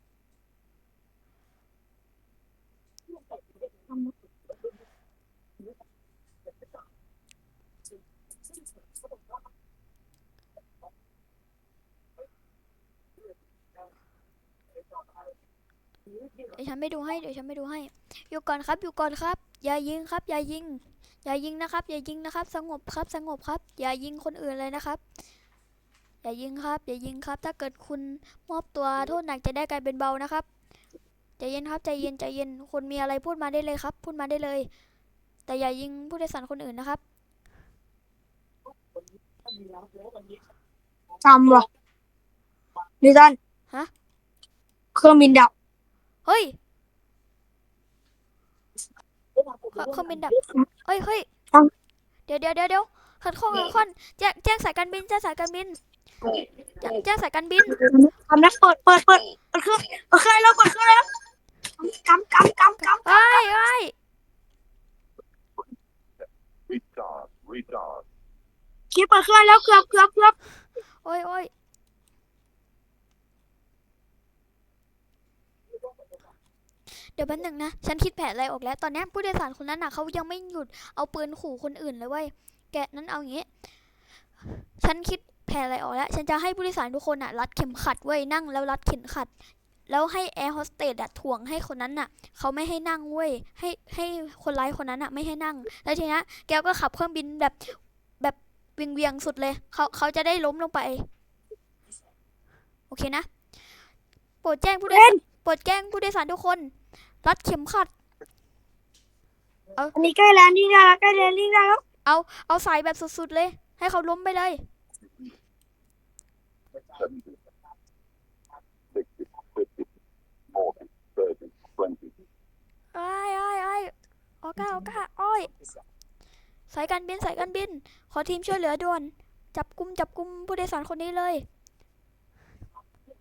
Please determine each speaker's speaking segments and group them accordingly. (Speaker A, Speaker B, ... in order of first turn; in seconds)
Speaker A: 16.5-25.0, 26.2-30.4, 31.4-34.7, 35.5-37.0, 46.2-46.5, 49.7-51.2, 52.3-55.8, 56.8-57.8, 63.0-63.9, 71.0-71.5, 77.0-83.5, 84.8-89.3, 89.9-101.0, 102.9-103.3, 104.4-107.9, 112.0-114.6, 122.9-125.5, 126.7-131.4
Speaker B: 41.2-41.6, 43.0-43.4, 44.9-45.5, 57.8-61.0, 61.8-63.4, 68.9-70.3, 104.9-105.2, 109.9-111.8
Speaker C: 66.7-68.0, 116.9-117.4, 118.9-119.9, 120.5-122.1